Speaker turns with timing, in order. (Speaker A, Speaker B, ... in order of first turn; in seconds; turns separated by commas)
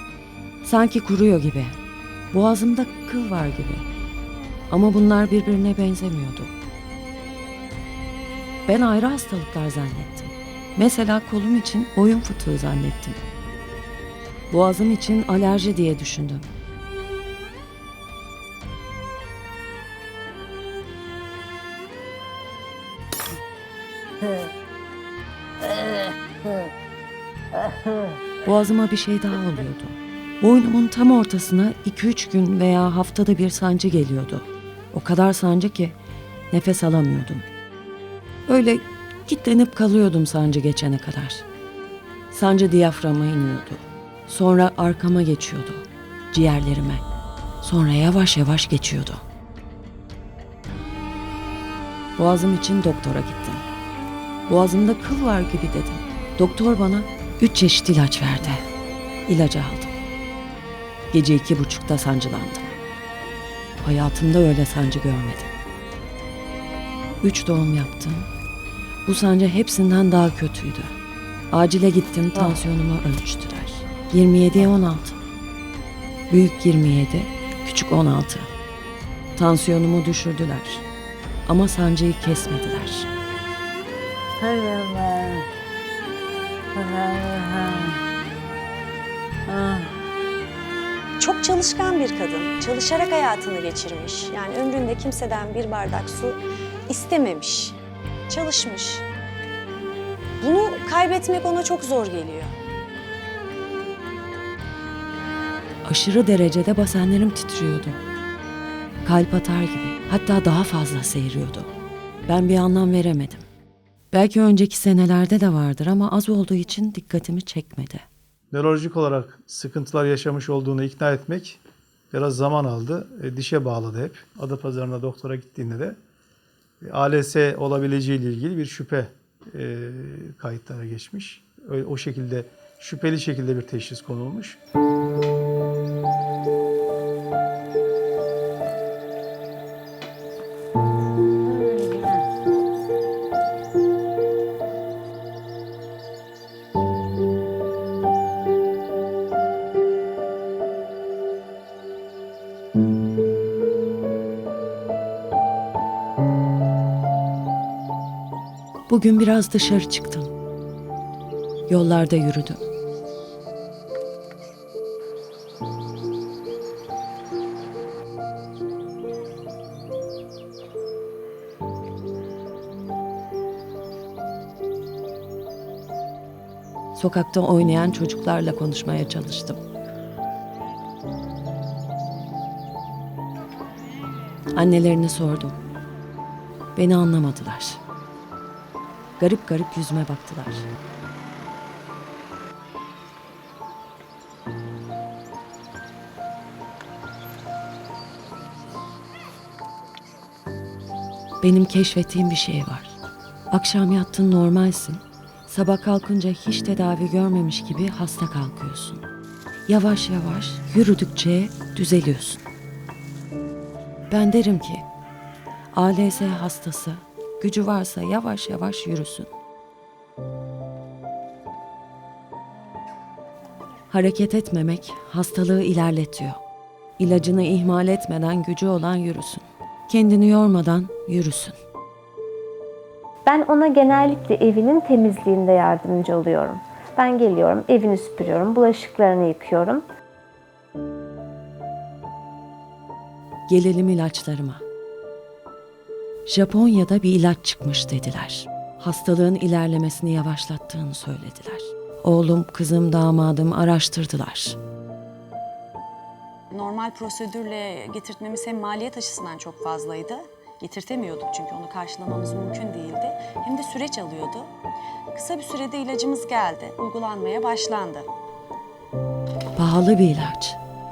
Speaker A: 0.6-1.8, Speaker A: 2.3-3.9, Speaker A: 4.7-6.5, Speaker A: 8.7-13.2, Speaker A: 14.5-16.5, Speaker B: 25.6-26.6, Speaker B: 27.5-28.2, Speaker A: 28.4-36.0, Speaker A: 36.5-37.5, Speaker A: 38.5-41.5, Speaker A: 42.3-47.0, Speaker A: 47.6-49.2, Speaker A: 52.2-53.6, Speaker A: 54.5-58.6, Speaker A: 59.3-60.0, Speaker A: 61.1-62.7, Speaker A: 63.8-65.5, Speaker A: 67.2-68.3, Speaker A: 69.0-71.0, Speaker A: 71.5-75.2, Speaker A: 76.3-78.5, Speaker A: 79.4-80.8, Speaker A: 81.5-83.1, Speaker B: 84.4-85.5, Speaker B: 86.7-88.0, Speaker B: 89.5-89.9, Speaker C: 91.2-97.8, Speaker C: 98.3-99.0, Speaker C: 100.4-102.5, Speaker A: 105.8-108.0, Speaker A: 109.0-111.7, Speaker A: 112.3-113.5, Speaker A: 114.1-118.1, Speaker D: 118.5-121.6, Speaker D: 122.1-126.0, Speaker D: 126.8-134.6, Speaker B: 141.4-142.2, Speaker A: 158.9-160.3, Speaker A: 161.7-162.7, Speaker A: 176.9-179.6, Speaker A: 184.5-185.6, Speaker A: 186.8-187.8, Speaker A: 189.2-190.7, Speaker A: 201.4-203.0, Speaker A: 203.5-209.1, Speaker A: 209.7-212.4, Speaker A: 214.1-214.9, Speaker A: 215.7-219.3, Speaker A: 223.9-226.4, Speaker A: 227.0-231.6, Speaker E: 233.3-239.9, Speaker A: 243.5-244.6, Speaker A: 246.3-254.6, Speaker C: 256.5-264.5, Speaker C: 265.1-268.1, Speaker A: 269.6-270.6